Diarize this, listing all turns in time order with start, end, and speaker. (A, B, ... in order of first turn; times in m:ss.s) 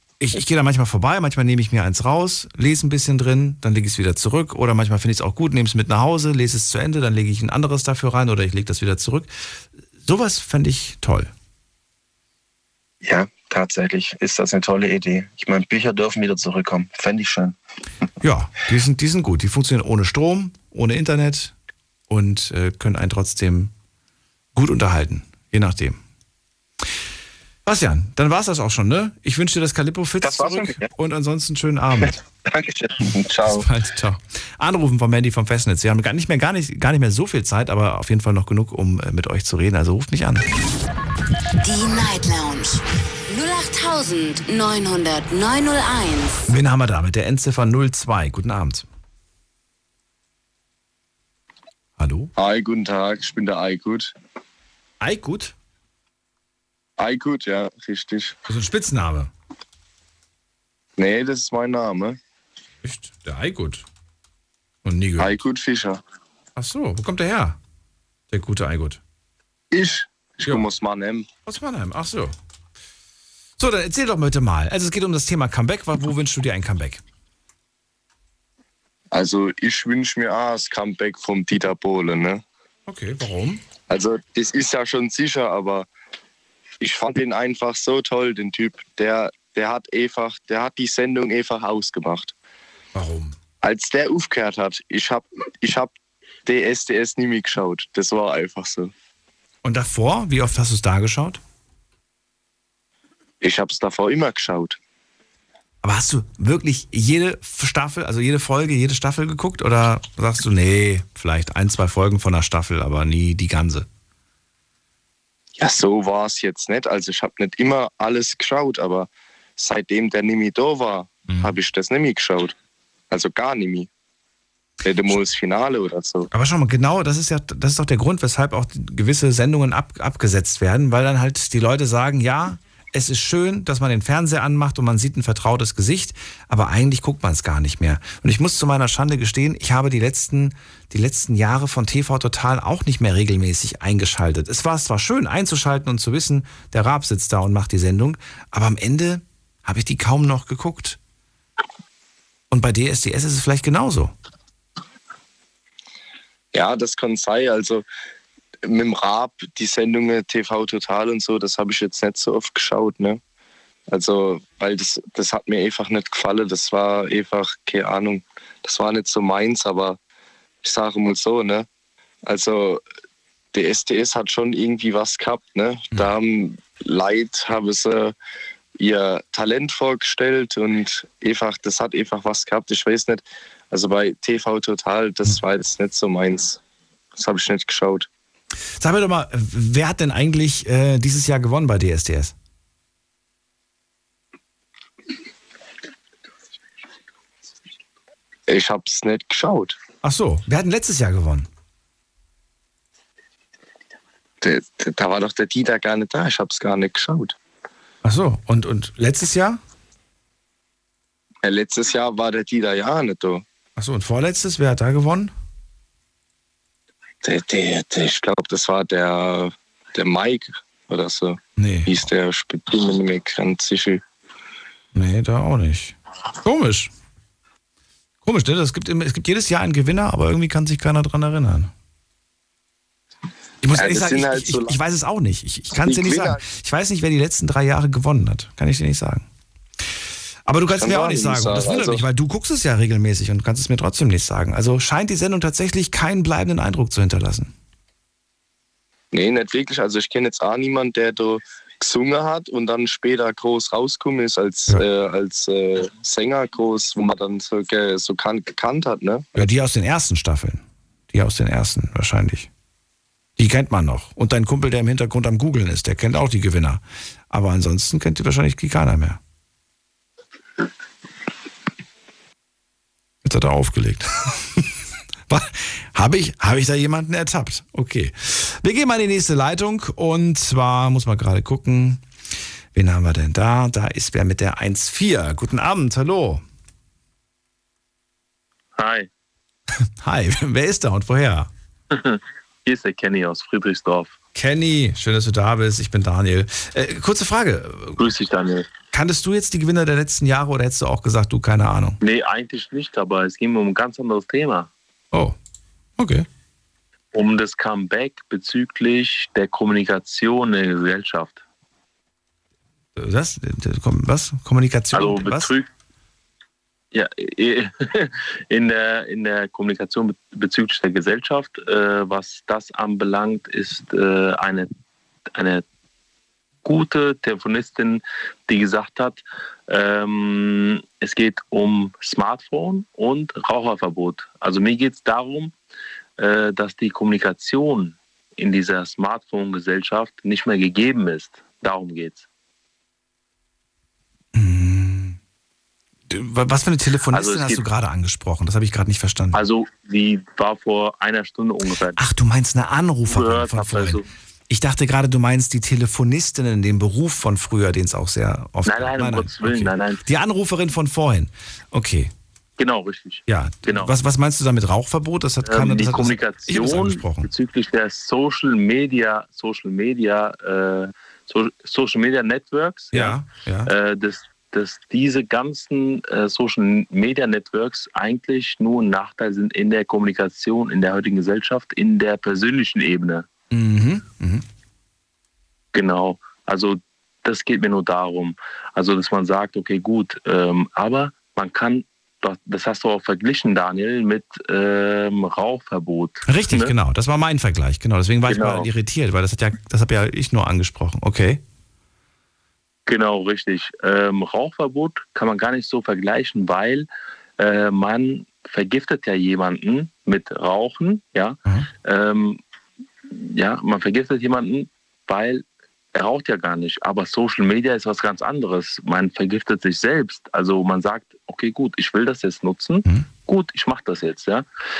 0:00.2-0:09.3 A
0:10.0-0:11.3 A
0:13.0-0:17.5 B
0:18.2-0:21.5 A
0:22.1-0:23.7 A
0:24.5-0:26.0 A
0:27.6-0:32.2 A
0:30.2-0:30.9 B
0:32.5-0:33.6 B
0:33.4-0:40.4 A
0:41.6-0:46.5 C
0:46.5-0:48.8 A
0:52.0-0:52.3 A
0:52.4-0:54.1 D
0:55.0-0:55.5 A
0:57.0-0:58.3 D
0:58.5-0:59.3 A
1:01.0-1:02.2 D
1:02.8-1:03.8 A
1:04.8-1:05.4 A
1:05.2-1:06.0 D
1:06.6-1:07.6 A
1:08.3-1:09.0 A
1:09.7-1:11.3 D
1:11.4-1:12.3 A
1:13.6-1:17.0 A
1:19.1-1:22.4 D
1:22.9-1:23.6 A
1:23.9-1:25.9 D
1:26.8-1:32.3 D
1:32.9-1:33.4 A
1:33.6-1:35.9 D
1:36.4-1:38.9 D
1:39.6-1:41.4 A
1:43.4-1:44.8 D
1:45.8-1:53.9 A
1:55.6-2:02.5 D
2:03.1-2:03.9 D
2:04.8-2:06.3 D
2:06.3-2:31.0 A
2:32.5-2:34.1 A
2:36.5-2:37.8 D
2:38.6-2:43.2 D
2:43.9-2:50.0 D
2:50.6-2:51.7 D
2:52.2-2:52.8 D
2:53.5-2:58.1 D
2:58.8-3:06.6 D
3:07.2-3:08.1 D
3:08.8-3:12.3 A
3:18.5-3:19.8 D
3:20.0-3:21.5 A
3:24.4-3:27.3 D
3:28.0-3:29.6 A
3:31.4-3:33.4 D
3:33.8-3:35.3 A
3:37.2-3:44.0 D
3:41.6-3:42.1 A
3:44.9-3:46.9 A
3:48.2-3:51.7 A
3:53.6-3:59.2 A
3:53.7-3:54.8 D
3:55.7-3:56.4 D
4:00.4-4:07.5 A
4:00.8-4:02.0 D
4:09.1-4:19.2 D
4:19.3-4:22.5 A
4:23.4-4:29.2 A
4:33.2-4:34.7 A
4:35.3-4:42.0 A
4:42.7-4:46.4 A
4:48.8-4:49.1 E
4:50.0-4:51.5 A
4:51.9-4:54.1 E
4:54.3-4:58.0 A
4:58.0-4:58.7 E
4:58.9-5:02.0 A
5:02.0-5:04.7 E
5:06.0-5:06.2 A
5:07.1-5:11.4 E
5:13.0-5:15.5 A
5:14.9-5:15.7 E
5:16.9-5:24.7 E
5:25.3-5:25.6 E
5:26.6-5:35.5 E
5:36.2-5:42.2 E
5:44.3-5:45.2 A
5:46.1-5:49.4 A
5:47.1-5:47.6 E
5:49.3-5:52.0 E
5:51.9-6:02.1 A
5:53.0-5:54.1 E
5:58.6-6:00.0 E
6:02.6-6:03.9 E
6:03.3-6:07.3 A
6:05.4-6:23.3 E
6:12.9-6:13.7 A
6:23.5-6:24.4 A
6:25.7-6:36.7 E
6:36.2-6:41.4 A
6:38.3-6:38.7 E
6:42.8-6:46.9 E
6:47.4-6:52.4 E
6:53.1-7:04.4 E